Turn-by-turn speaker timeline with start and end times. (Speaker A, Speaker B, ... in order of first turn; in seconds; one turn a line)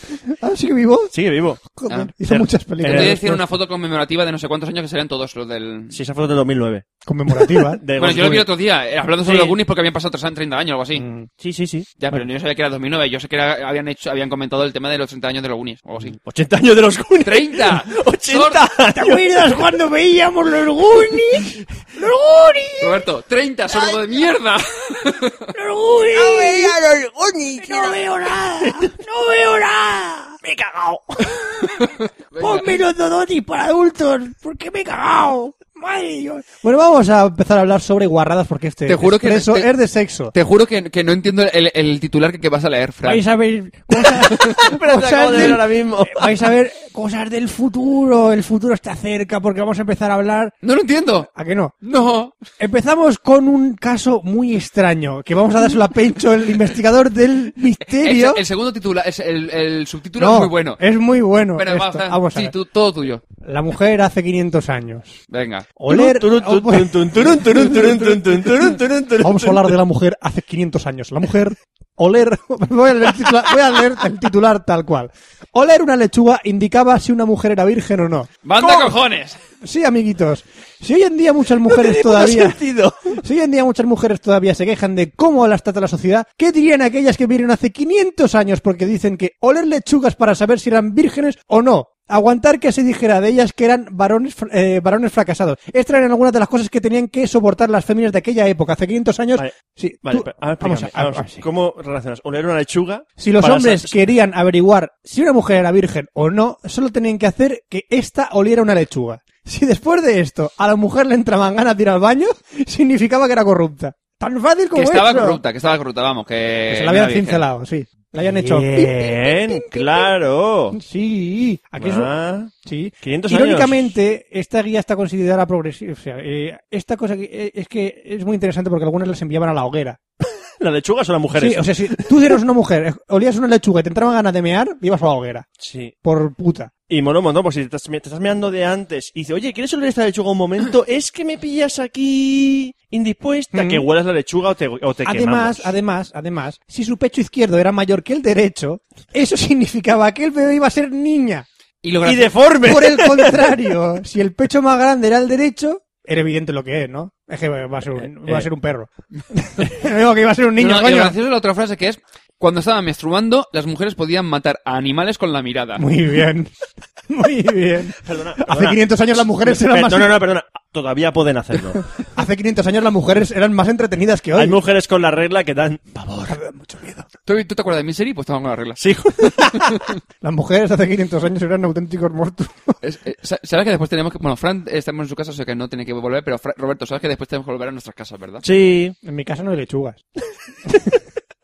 Speaker A: 0.4-1.1
Speaker B: 1.1-1.6
Speaker A: 1.7-3.4
Speaker C: 1.9-6.0
Speaker B: 2.8-3.2
Speaker B: 5.9-8.5
Speaker A: 7.1-7.8
Speaker C: 8.0-11.1
Speaker B: 9.2-9.6
Speaker A: 11.0-11.3
Speaker B: 11.4-11.9
Speaker C: 12.0-16.2
Speaker B: 16.2-19.6
Speaker C: 17.2-18.6
Speaker A: 18.9-23.0
Speaker C: 22.8-25.4
Speaker B: 23.7-24.0
Speaker A: 25.5-26.8
Speaker B: 26.1-28.9
Speaker A: 27.6-30.4
Speaker B: 30.4-31.0
Speaker A: 31.3-40.3
Speaker C: 31.8-32.7
Speaker C: 38.9-39.7
Speaker C: 40.3-43.2
Speaker A: 43.0-50.5
Speaker B: 44.3-46.4
Speaker C: 50.6-51.3
Speaker A: 51.3-51.8
Speaker C: 51.8-52.4
Speaker A: 52.6-58.4
Speaker C: 57.9-60.8
Speaker A: 60.2-62.5
Speaker C: 61.5-63.2
Speaker A: 63.4-65.2
Speaker C: 65.3-65.7
Speaker A: 65.8-78.9
Speaker B: 65.8-69.8
Speaker C: 78.5-79.4
Speaker A: 79.6-82.6
Speaker B: 81.5-83.2
Speaker A: 83.2-101.5
Speaker B: 100.0-104.0
Speaker A: 103.2-115.4
Speaker C: 114.8-117.4
Speaker A: 116.7-120.1
Speaker B: 118.2-120.8
Speaker A: 120.8-122.1
Speaker B: 121.8-122.5
Speaker A: 122.6-130.0
Speaker B: 123.0-124.0
Speaker B: 130.6-132.4
Speaker A: 131.4-135.5
Speaker B: 135.6-135.9
Speaker A: 136.0-136.7
Speaker B: 136.9-145.7
Speaker A: 143.5-143.8
Speaker A: 145.1-151.5
Speaker C: 151.8-152.3
Speaker B: 152.0-153.8
Speaker A: 152.6-161.2
Speaker C: 160.6-165.8
Speaker A: 165.8-166.5
Speaker A: 167.1-170.2
Speaker B: 168.0-168.8
Speaker B: 169.4-171.8
Speaker A: 172.1-174.6
Speaker B: 174.3-176.4
Speaker A: 176.3-177.1
Speaker C: 177.3-178.8
Speaker B: 178.8-179.8
Speaker C: 179.4-179.9
Speaker A: 180.2-182.8
Speaker C: 182.8-188.4
Speaker B: 188.4-188.9
Speaker A: 189.0-190.0
Speaker A: 190.7-191.0